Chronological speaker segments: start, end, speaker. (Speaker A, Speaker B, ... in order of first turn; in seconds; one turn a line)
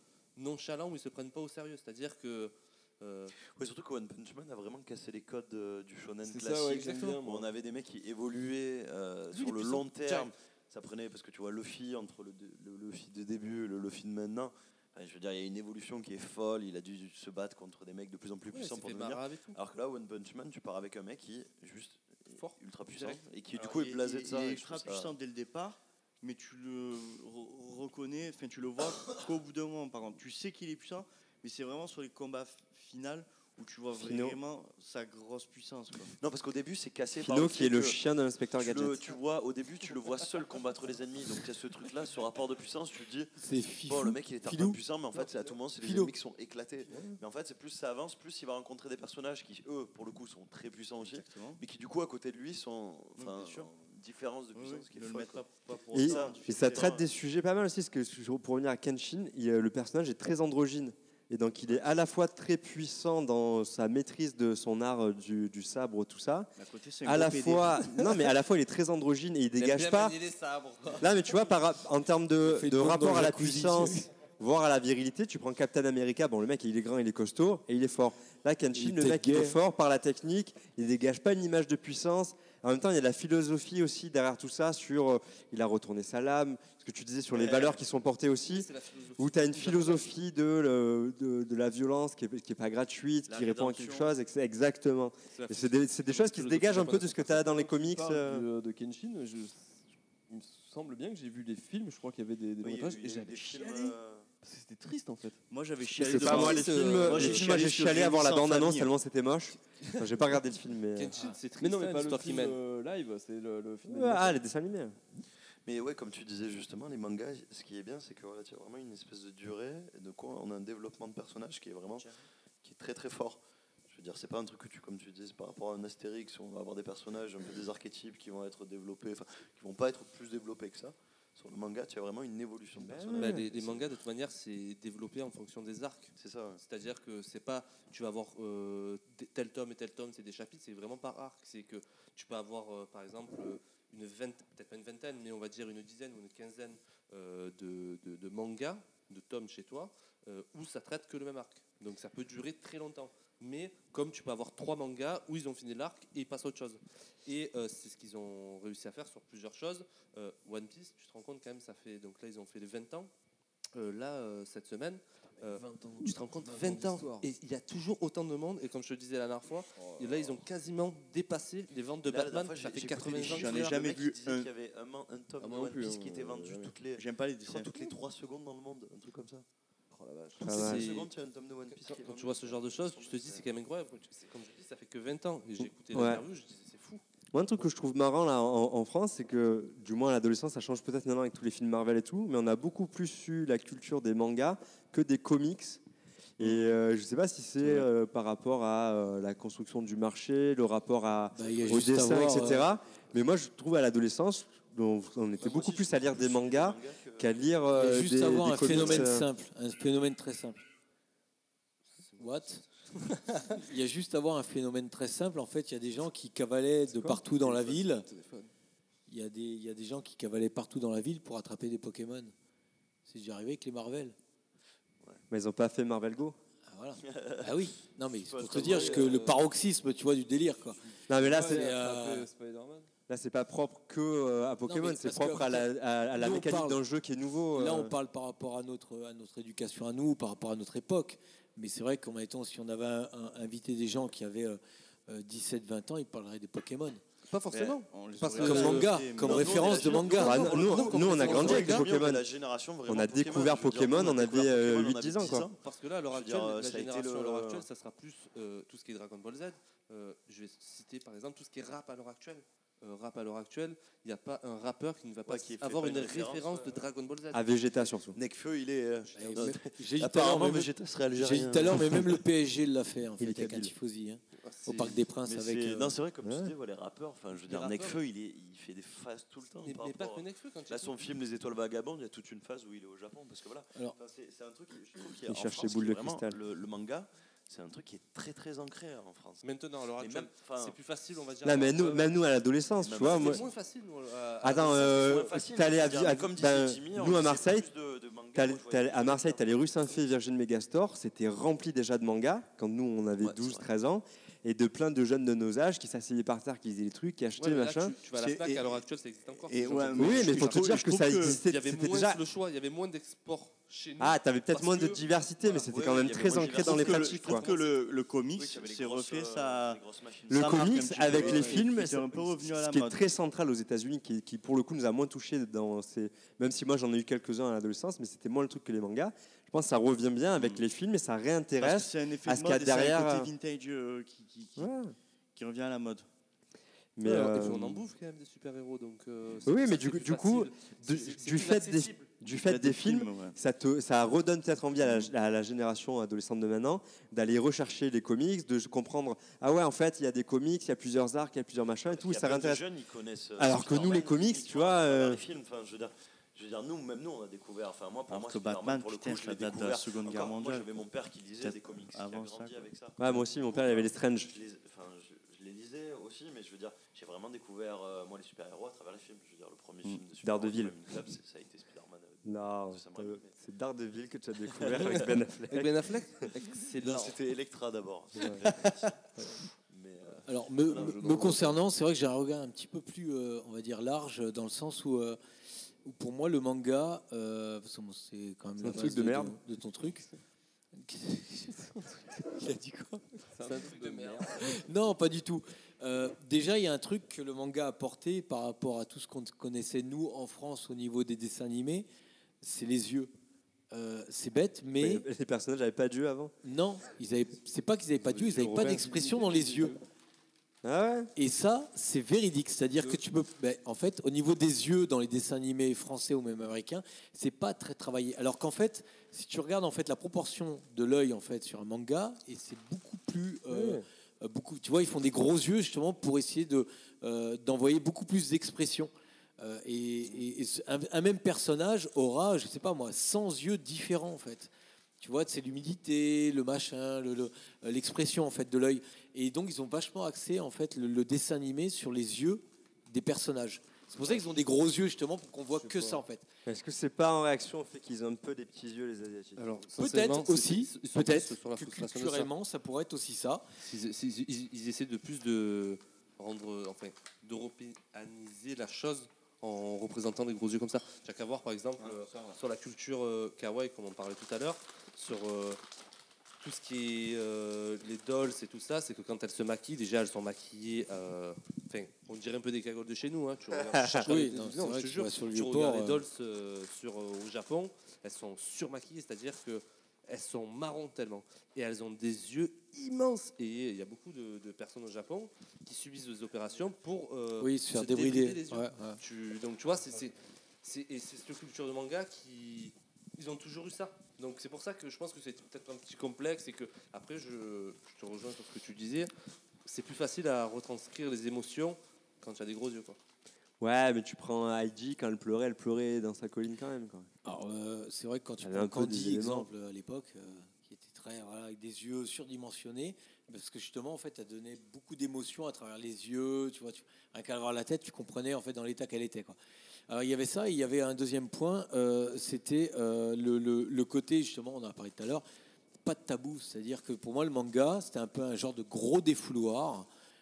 Speaker A: 0.4-3.3
Speaker B: 3.5-25.2
Speaker C: 6.2-7.5
Speaker A: 9.3-10.3
Speaker A: 18.5-19.6
Speaker A: 22.3-23.2
Speaker D: 23.5-36.1
Speaker E: 33.9-34.4
Speaker B: 36.1-38.0
Speaker E: 37.1-39.0
Speaker B: 38.6-57.0
Speaker F: 43.4-44.8
Speaker C: 45.1-45.5
Speaker F: 45.8-46.1
Speaker C: 46.9-47.2
Speaker D: 51.0-51.6
Speaker D: 53.2-53.7
Speaker D: 54.5-57.0
Speaker E: 55.9-66.5
Speaker D: 66.6-68.2
Speaker E: 67.0-70.2
Speaker A: 69.6-71.4
Speaker E: 71.0-98.5
Speaker F: 72.4-74.1
Speaker F: 78.7-79.6
Speaker D: 87.3-87.7
Speaker A: 87.5-87.7
Speaker A: 88.4-90.2
Speaker D: 93.3-94.2
Speaker A: 95.3-97.4
Speaker C: 97.3-105.4
Speaker B: 102.6-104.3
Speaker D: 105.5-108.9
Speaker E: 106.0-111.2
Speaker C: 106.1-107.5
Speaker A: 110.9-112.6
Speaker C: 111.6-114.3
Speaker E: 113.8-115.0
Speaker B: 115.7-122.1
Speaker B: 122.6-133.9
Speaker E: 132.8-133.5
Speaker A: 133.1-163.1
Speaker B: 136.2-136.6
Speaker A: 163.7-173.8
Speaker C: 165.4-167.3
Speaker C: 169.8-170.4
Speaker B: 172.0-179.4
Speaker D: 173.2-174.5
Speaker C: 175.4-176.8
Speaker D: 176.9-177.9
Speaker C: 179.9-180.6
Speaker A: 180.4-181.1
Speaker E: 180.4-180.8
Speaker B: 180.4-183.5
Speaker A: 181.6-187.0
Speaker E: 185.9-186.2
Speaker E: 187.3-195.8
Speaker E: 196.4-209.3
Speaker F: 201.3-202.7
Speaker B: 205.4-207.3
Speaker F: 207.7-210.6
Speaker B: 208.7-209.1
Speaker A: 212.0-213.2
Speaker F: 212.2-212.6
Speaker F: 213.5-218.1
Speaker E: 216.9-217.2
Speaker C: 217.3-218.5
Speaker F: 219.1-222.3
Speaker F: 223.1-224.2
Speaker E: 225.3-226.4
Speaker F: 226.7-230.8
Speaker B: 227.0-229.2
Speaker C: 228.5-229.4
Speaker E: 231.1-231.8
Speaker C: 231.1-232.9
Speaker F: 231.3-232.3
Speaker E: 233.1-237.9
Speaker F: 234.7-236.8
Speaker F: 237.5-247.0
Speaker A: 247.3-251.8
Speaker D: 247.5-250.1
Speaker F: 248.4-251.7
Speaker B: 249.2-257.6
Speaker E: 250.2-252.2
Speaker E: 252.9-255.5
Speaker A: 255.6-267.6
Speaker B: 265.2-266.9
Speaker E: 267.3-268.2
Speaker B: 268.1-272.1
Speaker F: 269.1-275.9
Speaker E: 273.2-273.7
Speaker A: 274.4-275.0
Speaker B: 275.2-289.4
Speaker E: 276.2-276.5
Speaker A: 277.5-278.0
Speaker A: 279.6-281.0
Speaker E: 285.3-286.4
Speaker A: 289.4-292.1
Speaker B: 290.0-290.8
Speaker E: 291.4-293.4
Speaker B: 292.8-293.5
Speaker A: 293.0-295.4
Speaker E: 294.4-297.7
Speaker B: 294.8-299.8
Speaker E: 298.4-307.9
Speaker B: 303.2-303.6
Speaker A: 307.4-315.0
Speaker D: 308.1-308.8
Speaker D: 309.4-311.4
Speaker E: 310.0-312.2
Speaker E: 314.0-317.5
Speaker B: 315.4-317.4
Speaker D: 316.3-323.0
Speaker A: 317.2-317.7
Speaker B: 318.3-321.5
Speaker E: 320.3-333.3
Speaker D: 331.6-334.7
Speaker E: 334.6-334.9
Speaker D: 335.3-336.1
Speaker E: 336.9-337.8
Speaker A: 337.0-342.1
Speaker E: 339.4-352.6
Speaker D: 342.3-343.4
Speaker D: 344.8-345.1
Speaker B: 351.9-373.3
Speaker E: 353.4-355.2
Speaker D: 358.1-360.7
Speaker D: 361.4-362.7
Speaker E: 363.0-364.3
Speaker E: 370.2-370.7
Speaker E: 372.2-376.2
Speaker B: 374.5-375.1
Speaker A: 374.8-377.2
Speaker B: 376.8-379.0
Speaker B: 379.7-381.5
Speaker F: 380.2-385.2
Speaker F: 385.8-390.1
Speaker E: 388.6-389.4
Speaker F: 390.7-393.2
Speaker C: 393.3-394.5
Speaker A: 393.4-394.3
Speaker F: 394.3-401.9
Speaker F: 402.4-403.1
Speaker F: 403.7-405.1
Speaker E: 404.8-406.3
Speaker F: 406.4-409.8
Speaker E: 408.0-408.9
Speaker C: 408.8-409.8
Speaker E: 410.6-411.1
Speaker F: 411.1-434.5
Speaker E: 423.5-423.8
Speaker F: 435.0-446.2
Speaker C: 445.5-446.0
Speaker E: 446.4-449.5
Speaker A: 449.4-452.3
Speaker F: 449.8-453.4
Speaker A: 453.6-465.6
Speaker D: 461.8-462.4
Speaker A: 466.4-499.1
Speaker E: 473.6-474.1
Speaker F: 474.0-476.0
Speaker F: 487.4-489.0
Speaker A: 499.6-503.0
Speaker E: 503.6-507.1
Speaker F: 507.2-519.4
Speaker E: 508.4-509.5
Speaker F: 519.9-525.2
Speaker F: 525.8-529.9